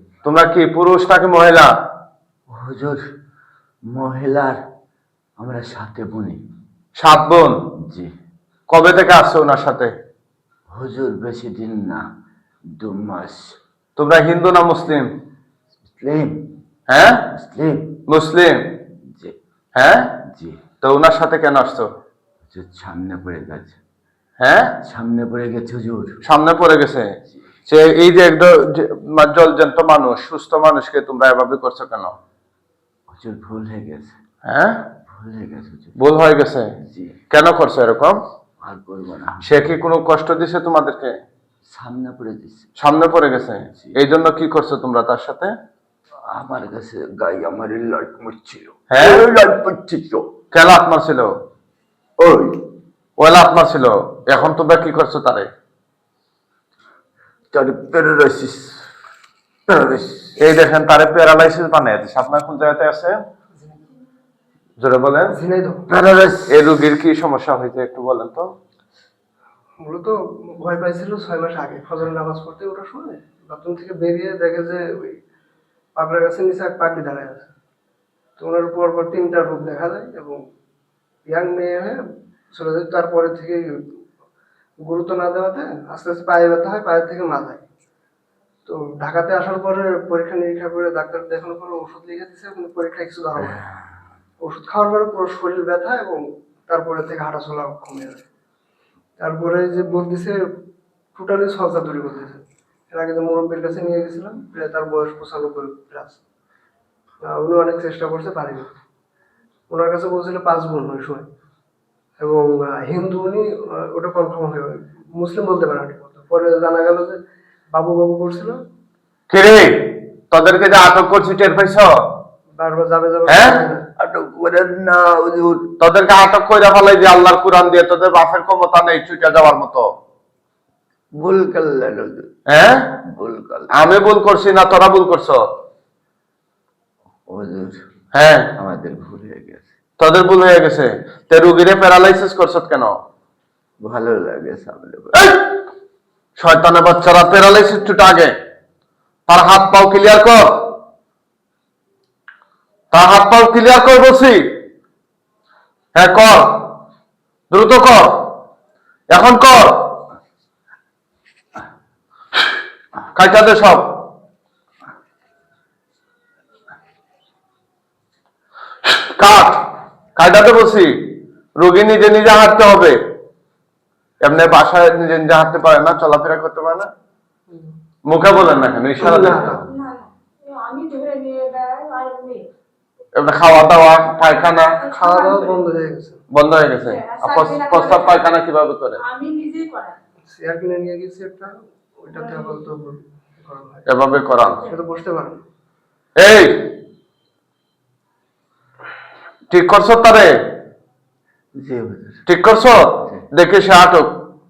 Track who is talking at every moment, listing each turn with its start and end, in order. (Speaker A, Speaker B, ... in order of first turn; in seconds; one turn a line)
Speaker A: 0.2-1.7
Speaker B: 2.5-3.0
Speaker B: 3.9-4.6
Speaker B: 5.4-6.4
Speaker A: 7.0-7.5
Speaker B: 7.8-8.1
Speaker A: 8.7-9.9
Speaker B: 10.7-12.0
Speaker B: 12.8-13.6
Speaker A: 14.0-15.1
Speaker B: 15.9-16.4
Speaker A: 16.9-17.3
Speaker B: 17.3-17.9
Speaker A: 18.1-18.6
Speaker A: 19.8-20.1
Speaker B: 20.2-20.6
Speaker A: 20.8-21.9
Speaker B: 22.5-23.8
Speaker A: 24.4-24.8
Speaker B: 24.8-26.1
Speaker A: 26.2-27.1
Speaker A: 27.7-32.1
Speaker B: 33.1-34.2
Speaker A: 34.5-34.8
Speaker B: 35.1-36.0
Speaker A: 36.0-36.7
Speaker B: 36.8-37.2
Speaker A: 37.3-38.2
Speaker B: 38.6-39.6
Speaker A: 39.4-41.1
Speaker B: 41.7-42.7
Speaker A: 42.8-45.5
Speaker B: 43.7-44.0
Speaker B: 46.3-50.2
Speaker A: 48.9-49.2
Speaker A: 50.5-51.3
Speaker B: 52.2-52.6
Speaker A: 53.2-55.5
Speaker B: 57.5-58.9
Speaker B: 59.7-60.4
Speaker A: 60.4-63.2
Speaker A: 64.8-65.3
Speaker C: 65.3-65.8
Speaker B: 65.9-66.7
Speaker A: 66.5-68.5
Speaker C: 69.8-75.2
Speaker C: 76.0-77.5
Speaker C: 78.4-80.4
Speaker C: 81.3-82.0
Speaker C: 82.5-83.7
Speaker C: 84.8-87.6
Speaker C: 88.7-93.6
Speaker B: 93.4-93.7
Speaker C: 94.4-98.2
Speaker C: 99.2-100.4
Speaker C: 101.2-106.2
Speaker C: 107.2-108.7
Speaker C: 109.7-111.3
Speaker C: 112.2-117.2
Speaker C: 117.7-118.6
Speaker A: 119.3-119.7
Speaker A: 120.3-121.9
Speaker C: 122.6-123.8
Speaker A: 123.3-123.6
Speaker B: 124.0-125.7
Speaker A: 125.8-129.9
Speaker B: 131.2-132.3
Speaker A: 132.5-132.9
Speaker B: 133.1-133.7
Speaker A: 133.7-135.4
Speaker B: 137.3-137.8
Speaker A: 138.1-138.5
Speaker B: 138.6-139.7
Speaker A: 140.0-143.0
Speaker B: 143.8-145.3
Speaker A: 145.2-145.4
Speaker A: 146.4-148.3
Speaker A: 149.3-150.4
Speaker A: 152.9-154.4
Speaker A: 155.9-156.7
Speaker A: 157.5-158.1
Speaker A: 159.1-159.8
Speaker A: 163.2-163.9
Speaker A: 169.2-169.6
Speaker A: 170.2-170.9
Speaker A: 171.6-173.0
Speaker A: 174.2-176.9
Speaker C: 177.5-177.8
Speaker A: 178.1-179.6
Speaker C: 179.0-179.7
Speaker D: 180.0-182.4
Speaker A: 183.2-184.8
Speaker C: 184.9-186.2
Speaker A: 186.3-189.0
Speaker D: 189.1-190.0
Speaker C: 190.3-193.8
Speaker A: 193.9-194.6
Speaker C: 194.6-195.4
Speaker A: 196.2-196.7
Speaker A: 199.5-200.3
Speaker B: 201.6-202.2
Speaker A: 202.3-204.1